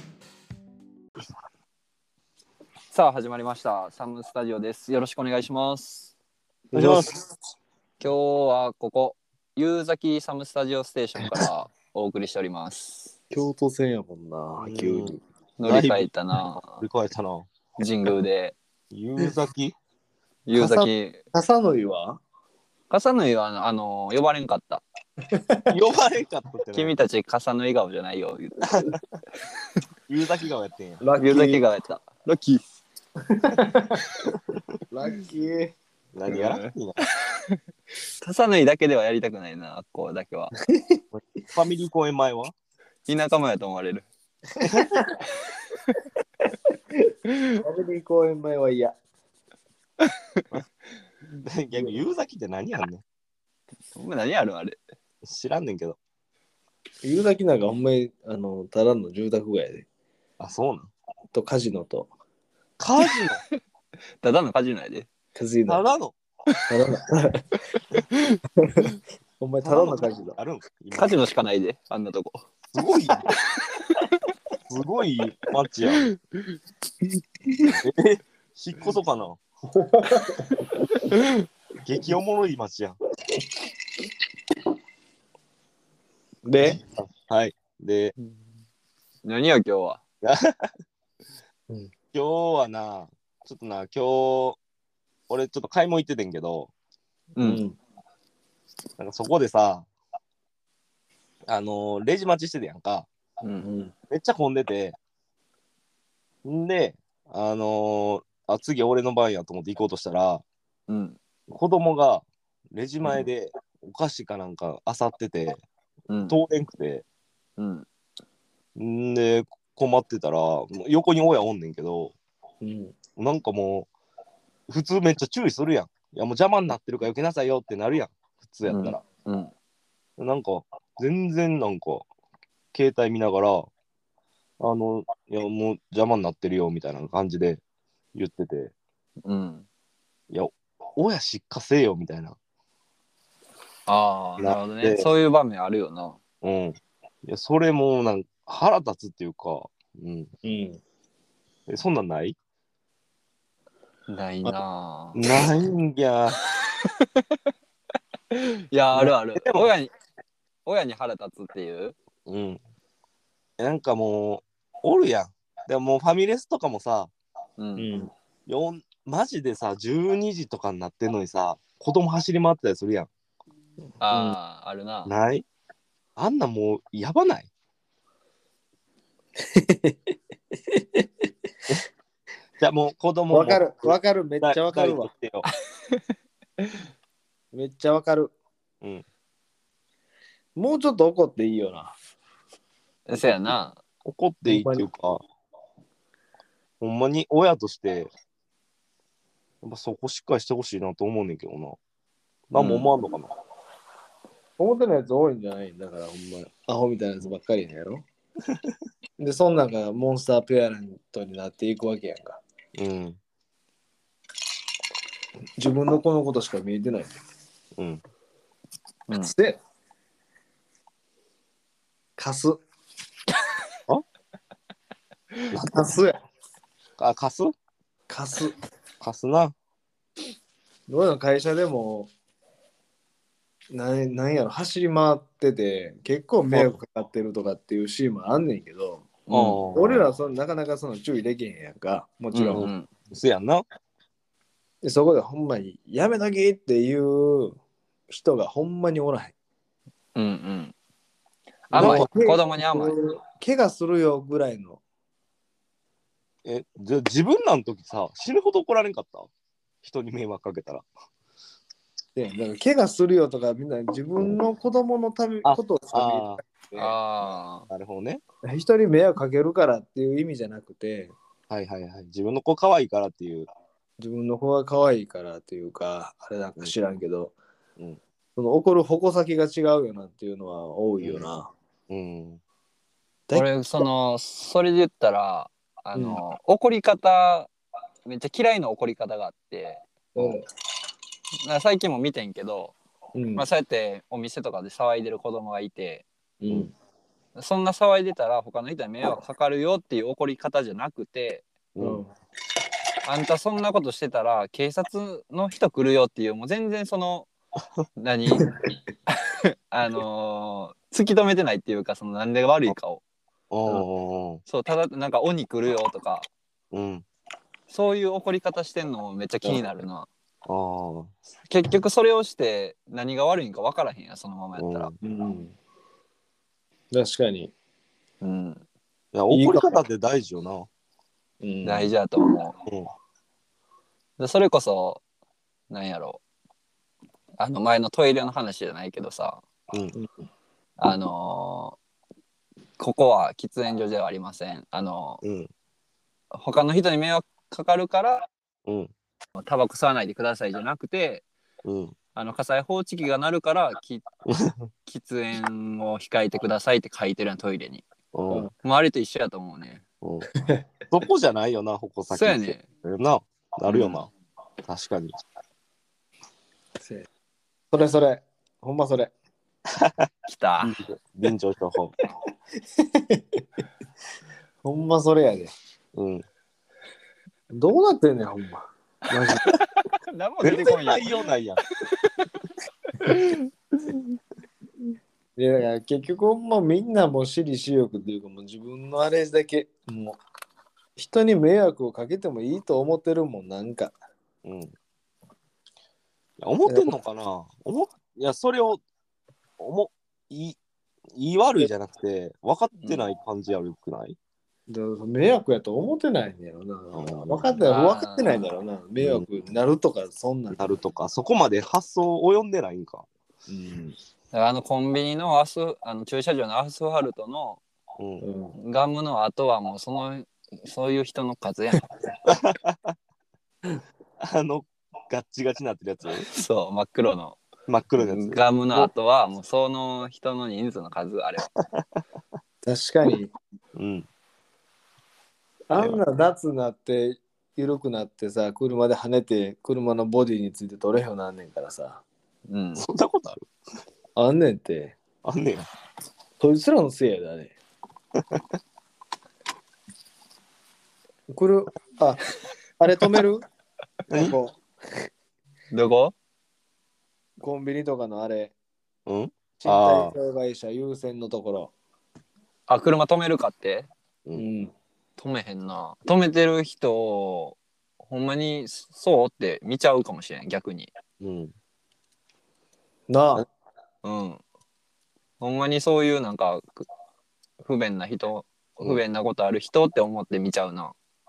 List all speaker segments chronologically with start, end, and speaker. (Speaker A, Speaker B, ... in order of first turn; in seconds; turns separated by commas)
Speaker A: 2.9-6.1, Speaker B: 6.7-7.2, Speaker C: 6.7-7.1, Speaker A: 8.0-13.1, Speaker B: 13.3-15.2, Speaker C: 14.6-16.1, Speaker A: 15.6-16.8, Speaker C: 16.8-17.5, Speaker A: 17.8-18.6, Speaker C: 18.9-19.7, Speaker A: 20.4-21.2, Speaker B: 20.5-22.2, Speaker A: 22.9-24.8, Speaker B: 25.3-25.6, Speaker C: 25.7-26.9, Speaker A: 26.7-28.8, Speaker C: 28.6-29.0, Speaker C: 30.1-31.0, Speaker B: 31.0-31.6, Speaker A: 31.2-32.6, Speaker B: 33.3-34.0, Speaker B: 34.9-35.7, Speaker C: 36.1-37.0, Speaker A: 36.3-36.7, Speaker A: 38.2-40.5, Speaker B: 40.7-41.0, Speaker C: 41.1-42.5, Speaker A: 43.0-44.1, Speaker B: 44.6-45.2, Speaker C: 44.6-44.9, Speaker B: 47.6-48.9, Speaker C: 51.4-53.0, Speaker B: 51.7-52.0, Speaker A: 54.0-54.8, Speaker C: 55.2-56.0, Speaker B: 57.0-59.8, Speaker C: 60.4-60.9, Speaker B: 61.3-62.1, Speaker C: 62.8-63.4, Speaker A: 64.2-65.1, Speaker B: 65.3-65.8, Speaker C: 65.7-66.1, Speaker B: 66.7-67.5, Speaker A: 68.0-68.4, Speaker B: 68.6-70.3, Speaker C: 69.6-71.2, Speaker A: 71.0-72.4, Speaker C: 72.7-73.2, Speaker C: 74.7-76.0, Speaker C: 77.6-79.4, Speaker B: 79.8-80.7, Speaker A: 81.1-81.3, Speaker C: 81.8-83.0, Speaker B: 86.4-86.8, Speaker C: 87.0-88.1, Speaker A: 89.2-90.0, Speaker C: 90.2-90.7, Speaker C: 92.1-94.6, Speaker C: 95.3-96.7, Speaker A: 97.3-97.6, Speaker B: 97.4-97.8, Speaker C: 99.0-99.8, Speaker C: 101.5-103.1, Speaker B: 103.6-103.9, Speaker C: 104.1-105.0, Speaker C: 106.4-110.4, Speaker A: 110.9-111.2, Speaker C: 111.5-115.6, Speaker A: 116.1-116.4, Speaker C: 116.3-117.0, Speaker A: 117.6-117.8, Speaker C: 118.8-122.1, Speaker B: 122.6-123.0, Speaker C: 123.2-123.9, Speaker C: 124.7-129.0, Speaker A: 128.7-129.5, Speaker C: 130.2-132.1, Speaker C: 132.7-133.7, Speaker C: 134.6-137.6, Speaker C: 138.1-138.7, Speaker A: 139.2-139.6, Speaker C: 140.3-142.3, Speaker A: 143.9-146.2, Speaker C: 144.4-145.1, Speaker C: 146.4-150.3, Speaker B: 150.4-150.8, Speaker C: 151.7-152.3, Speaker A: 154.1-155.2, Speaker C: 155.1-156.4, Speaker A: 158.3-159.9, Speaker C: 158.9-159.7, Speaker A: 160.6-161.9, Speaker C: 162.3-162.6, Speaker C: 163.6-167.1, Speaker A: 167.6-167.9, Speaker B: 167.8-168.1, Speaker C: 168.5-173.1, Speaker A: 174.0-175.1, Speaker C: 175.1-175.4, Speaker C: 176.2-177.5, Speaker B: 179.4-180.0, Speaker B: 180.7-181.0, Speaker C: 182.6-185.4, Speaker B: 183.3-185.1, Speaker B: 187.5-188.3, Speaker B: 190.6-191.9, Speaker A: 193.1-193.8, Speaker C: 194.0-195.2, Speaker B: 194.4-194.9, Speaker C: 196.8-198.1, Speaker C: 199.6-201.8, Speaker C: 202.5-203.3, Speaker A: 202.6-202.9, Speaker B: 204.6-208.0, Speaker B: 209.2-212.4, Speaker C: 212.8-213.2, Speaker B: 215.6-217.1, Speaker C: 217.8-218.0, Speaker A: 219.1-219.3, Speaker B: 219.2-219.6, Speaker B: 222.2-222.6, Speaker B: 225.5-226.2, Speaker C: 227.0-227.5, Speaker B: 228.1-228.5, Speaker C: 229.0-229.5, Speaker B: 230.9-232.1, Speaker B: 233.7-242.7, Speaker C: 236.5-236.8, Speaker A: 239.3-239.6, Speaker C: 239.3-240.0, Speaker A: 242.3-242.9, Speaker C: 242.5-243.6, Speaker B: 244.8-247.6, Speaker B: 248.1-249.3, Speaker A: 250.1-250.7, Speaker B: 251.7-254.8, Speaker A: 251.7-252.9, Speaker C: 251.7-252.1, Speaker C: 256.4-259.3, Speaker C: 259.8-260.8, Speaker B: 262.1-266.9, Speaker C: 265.4-266.4, Speaker A: 266.8-267.7, Speaker C: 267.7-268.2, Speaker B: 268.4-271.1, Speaker C: 271.5-273.5, Speaker B: 274.0-277.3, Speaker B: 278.4-281.5, Speaker C: 281.0-281.3, Speaker C: 281.9-282.4, Speaker A: 283.3-287.5, Speaker B: 285.9-286.2, Speaker A: 288.1-289.8, Speaker B: 290.1-290.4, Speaker A: 291.4-292.7, Speaker B: 293.1-293.4, Speaker A: 293.4-296.0, Speaker B: 296.4-296.7, Speaker A: 297.3-301.4, Speaker C: 301.7-302.0, Speaker B: 301.8-302.1, Speaker A: 303.0-307.3, Speaker A: 308.0-308.5, Speaker A: 309.1-313.0, Speaker C: 313.5-314.4, Speaker A: 314.5-316.3, Speaker C: 316.7-317.0, Speaker A: 317.7-320.1, Speaker C: 320.4-321.1, Speaker A: 321.5-324.9, Speaker C: 324.6-324.9, Speaker B: 325.0-325.5, Speaker B: 326.9-327.5, Speaker A: 328.2-328.6, Speaker C: 329.1-330.7, Speaker B: 329.3-329.8, Speaker B: 331.4-331.9, Speaker A: 331.6-332.6, Speaker A: 334.2-335.0, Speaker A: 335.7-336.2, Speaker A: 337.4-339.4, Speaker A: 340.8-341.8, Speaker A: 342.8-345.2, Speaker C: 345.2-345.5, Speaker A: 346.3-348.2, Speaker C: 348.6-348.9, Speaker A: 349.4-351.2, Speaker C: 351.6-351.9, Speaker A: 352.1-354.0, Speaker C: 354.3-354.6, Speaker A: 354.9-357.8, Speaker C: 358.1-358.5, Speaker A: 358.6-359.8, Speaker C: 360.0-360.3, Speaker B: 360.4-360.6, Speaker C: 360.9-364.1, Speaker A: 362.1-362.6, Speaker A: 363.7-364.0, Speaker C: 364.6-365.1, Speaker B: 366.8-367.1, Speaker B: 367.7-369.1, Speaker C: 369.7-370.1, Speaker A: 370.3-370.8, Speaker C: 370.6-371.9, Speaker B: 372.8-373.4, Speaker B: 374.6-375.5, Speaker C: 375.9-376.2, Speaker B: 377.5-379.5, Speaker A: 380.1-381.1, Speaker C: 380.4-381.6, Speaker A: 381.9-382.3, Speaker A: 383.0-383.9, Speaker B: 385.4-390.2, Speaker B: 391.0-393.9, Speaker C: 394.4-394.7, Speaker C: 396.4-398.8, Speaker B: 396.6-396.9, Speaker C: 399.6-400.6, Speaker C: 401.1-404.2, Speaker B: 404.7-410.8, Speaker C: 406.9-407.6, Speaker A: 407.6-408.5, Speaker C: 409.0-409.3, Speaker C: 410.6-413.1, Speaker B: 413.5-413.9, Speaker A: 414.3-417.6, Speaker C: 418.0-418.2, Speaker B: 418.2-418.6, Speaker A: 418.6-421.8, Speaker C: 422.2-422.9, Speaker C: 424.2-426.3, Speaker A: 426.3-427.4, Speaker C: 427.7-428.4, Speaker A: 428.0-431.5, Speaker C: 431.6-431.8, Speaker B: 432.6-433.3, Speaker C: 433.7-434.1, Speaker B: 435.7-442.0, Speaker C: 435.7-436.0, Speaker A: 442.5-442.9, Speaker C: 442.8-443.5, Speaker B: 444.1-445.0, Speaker C: 445.2-445.7, Speaker B: 446.4-447.5, Speaker B: 451.3-452.2, Speaker B: 452.8-453.4, Speaker B: 454.1-454.6, Speaker A: 455.7-456.1, Speaker B: 457.4-458.5, Speaker C: 459.1-460.1, Speaker B: 459.6-461.7, Speaker A: 462.7-463.9, Speaker B: 464.3-464.7, Speaker A: 465.2-470.9, Speaker C: 471.2-471.5, Speaker B: 473.1-473.4, Speaker A: 474.0-474.4, Speaker A: 475.4-476.9, Speaker A: 477.6-480.9